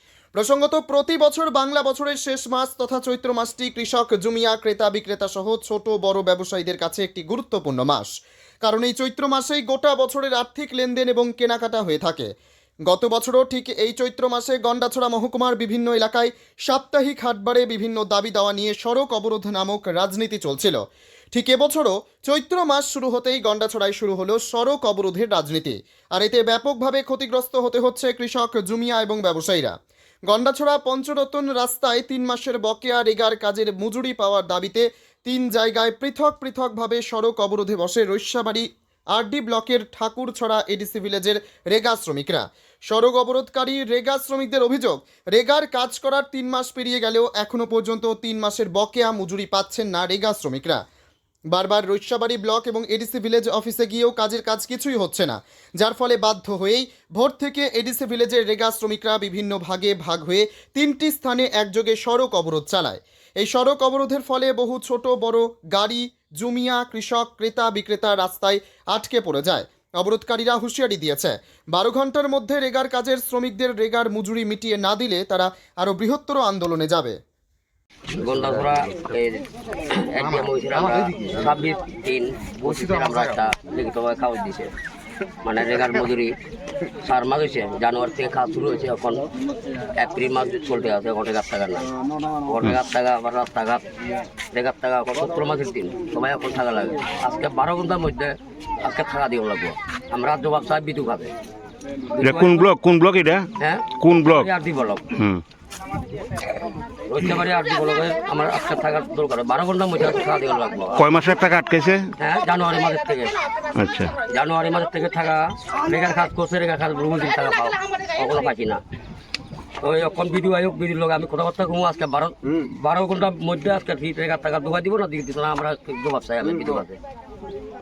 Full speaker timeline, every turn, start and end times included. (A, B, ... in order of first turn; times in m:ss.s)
0:00.4-0:08.1 A
0:08.6-0:12.3 A
0:12.9-0:20.8 A
0:21.3-0:29.7 A
0:30.3-0:50.8 A
0:51.5-1:17.2 A
1:18.2-1:24.7 B
1:25.4-1:26.3 B
1:27.0-1:29.2 B
1:30.0-1:31.9 B
1:32.4-1:33.8 B
1:34.5-1:41.3 B
1:42.1-1:42.6 B
1:42.2-1:43.5 C
1:43.6-1:45.1 B
1:44.0-1:44.5 C
1:45.1-1:45.4 C
1:47.1-1:51.0 B
1:51.0-1:52.1 C
1:52.2-1:53.4 B
1:53.8-1:54.1 C
1:54.3-1:58.8 B
1:59.8-2:07.0 B